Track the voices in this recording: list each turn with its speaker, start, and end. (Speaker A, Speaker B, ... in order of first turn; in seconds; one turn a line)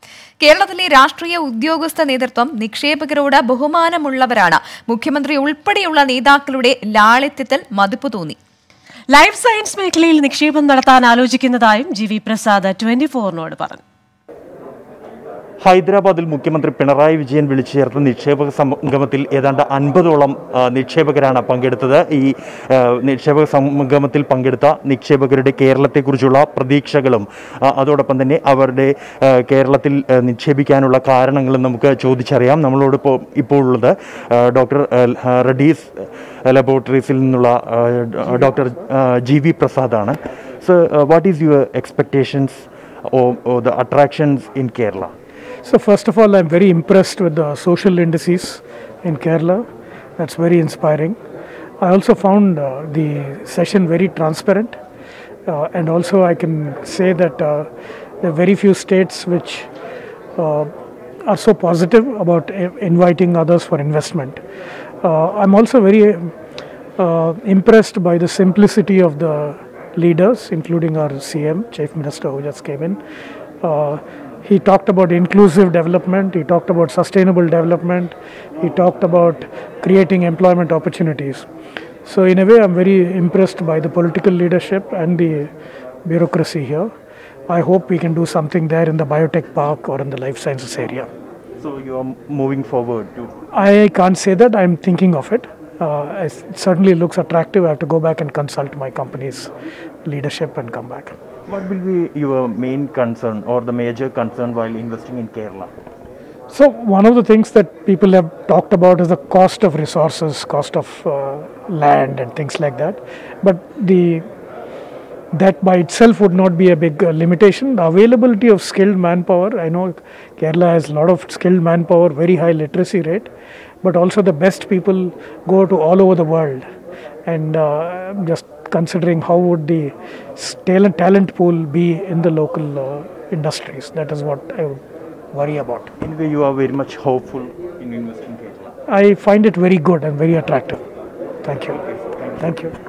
Speaker A: 0.4-8.4
Speaker B: 9.1-13.8
Speaker C: 15.6-45.1
Speaker D: 45.6-49.7
Speaker D: 50.2-51.2
Speaker D: 51.8-54.8
Speaker D: 55.5-57.7
Speaker D: 58.2-59.7
Speaker D: 60.4-60.7
Speaker D: 61.2-64.4
Speaker D: 65.0-66.3
Speaker D: 67.0-73.0
Speaker D: 73.6-81.5
Speaker D: 82.0-85.5
Speaker D: 86.0-86.9
Speaker D: 87.5-91.1
Speaker C: 91.6-93.4
Speaker D: 93.5-99.5
Speaker D: 100.0-101.2
Speaker C: 101.5-105.7
Speaker D: 106.5-114.2
Speaker D: 115.3-123.3
Speaker D: 123.8-126.7
Speaker D: 127.2-134.8
Speaker D: 135.3-135.9
Speaker C: 136.0-138.7
Speaker D: 138.9-140.8
Speaker D: 141.4-141.8
Speaker C: 141.7-142.4
Speaker D: 142.3-142.8